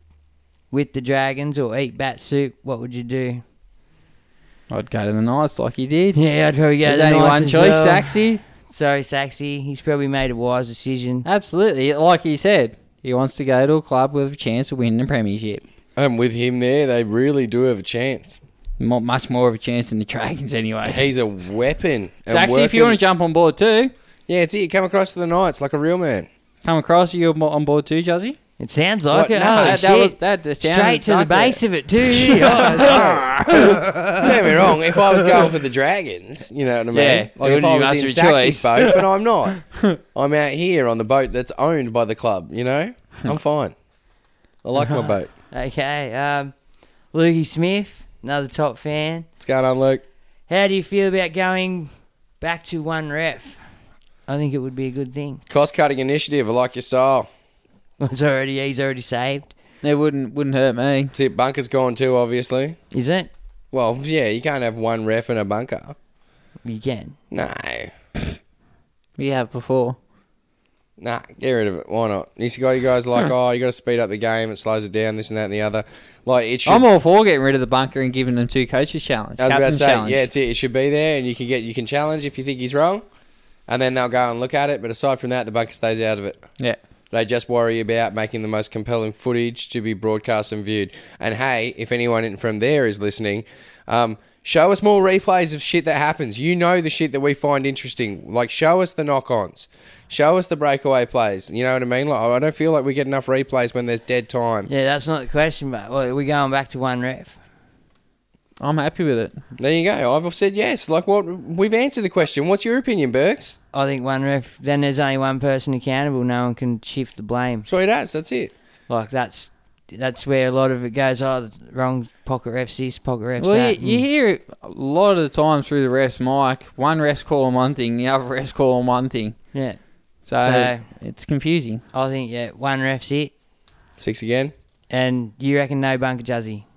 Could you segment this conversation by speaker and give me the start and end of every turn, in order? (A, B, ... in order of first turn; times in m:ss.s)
0:00.7-0:03.4 A
0:04.7-0:06.2 B
0:06.1-0:11.2 A
0:06.8-0:08.4 B
0:11.2-0:15.6 B
0:16.0-0:18.4 C
0:18.8-0:21.0 B
0:20.8-0:23.0 C
0:22.3-0:23.9 B
0:24.3-0:26.3 C
0:26.6-0:28.4 B
0:28.6-0:34.3 A
0:29.1-0:29.8 C
0:29.3-0:33.8 B
0:32.8-0:33.4 C
0:34.2-0:43.7 C
0:36.9-0:39.0 B
0:44.6-0:45.3 C
0:44.8-0:46.5 A
0:47.1-0:49.3 A
0:49.4-0:50.0 C
0:50.5-0:53.6 A
0:54.3-0:55.4 A
0:55.5-0:57.3 C
0:58.0-0:59.5 A
0:59.8-1:01.1 B
1:01.1-1:02.8 C
1:02.9-1:03.3 A
1:03.7-1:06.0 C
1:06.6-1:07.2 A
1:07.3-1:07.9 C
1:09.2-1:10.0 B
1:11.0-1:16.8 C
1:16.6-1:20.2 B
1:19.4-1:23.0 C
1:23.7-1:26.4 C
1:27.1-1:44.7 C
1:44.7-1:47.4 A
1:48.6-1:49.4 B
1:49.6-1:53.6 C
1:53.7-1:57.7 A
1:57.6-1:58.5 C
1:58.9-2:04.0 A
2:03.4-2:09.4 B
2:09.5-2:10.8 A
2:10.2-2:11.8 B
2:11.9-2:13.3 A
2:14.0-2:14.5 C
2:14.9-2:16.6 A